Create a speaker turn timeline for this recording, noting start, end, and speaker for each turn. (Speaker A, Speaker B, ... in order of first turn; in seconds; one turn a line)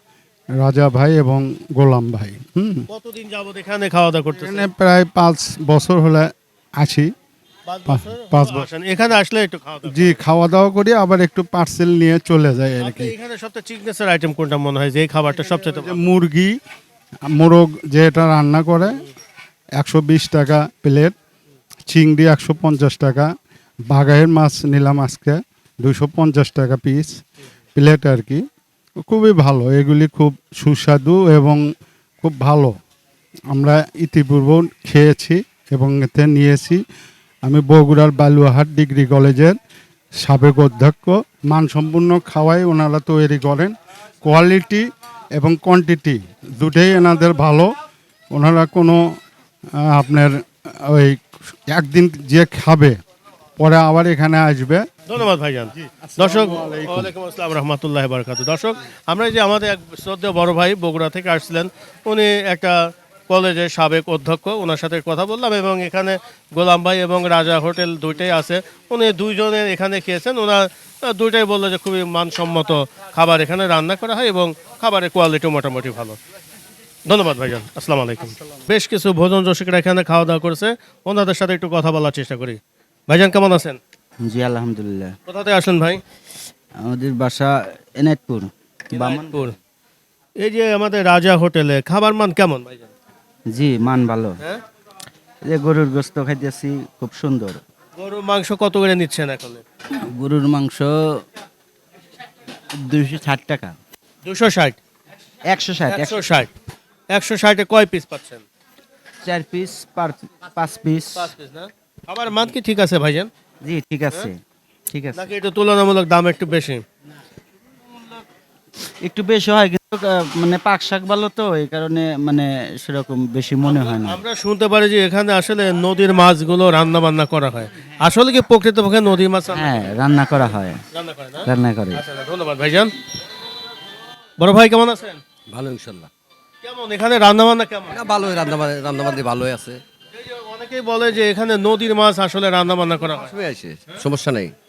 Speaker A: 0.6-2.9
Speaker B: 2.9-4.7
Speaker A: 4.3-7.1
Speaker B: 7.7-10.2
Speaker A: 7.9-8.7
Speaker A: 9.9-13.1
Speaker B: 12.8-16.0
Speaker A: 15.7-16.6
Speaker A: 17.3-19.0
Speaker A: 19.8-21.1
Speaker A: 21.9-23.3
Speaker A: 23.9-27.2
Speaker A: 27.8-28.4
Speaker A: 29.0-31.6
Speaker A: 32.2-32.8
Speaker A: 33.5-36.8
Speaker A: 37.5-39.6
Speaker A: 40.2-47.7
Speaker A: 48.3-49.1
Speaker A: 49.8-53.0
Speaker A: 53.6-54.9
Speaker B: 55.1-76.2
Speaker A: 55.8-57.1
Speaker B: 77.1-83.8
Speaker C: 84.3-85.1
Speaker B: 85.3-86.0
Speaker C: 86.8-89.5
Speaker B: 88.9-89.5
Speaker B: 90.4-92.9
Speaker C: 93.5-94.4
Speaker C: 95.5-97.6
Speaker B: 98.0-99.6
Speaker C: 100.2-101.0
Speaker C: 102.9-103.8
Speaker B: 104.2-104.8
Speaker C: 105.5-106.2
Speaker B: 105.9-106.5
Speaker B: 107.1-108.4
Speaker C: 109.2-111.3
Speaker B: 111.2-113.3
Speaker C: 113.6-114.4
Speaker C: 114.9-115.3
Speaker B: 115.2-116.8
Speaker C: 119.0-124.2
Speaker B: 123.6-129.8
Speaker C: 129.5-130.8
Speaker B: 130.9-132.9
Speaker C: 131.4-132.0
Speaker B: 134.4-135.2
Speaker D: 135.5-136.1
Speaker B: 136.6-138.0
Speaker D: 137.9-139.8
Speaker B: 140.2-143.3
Speaker D: 143.1-144.5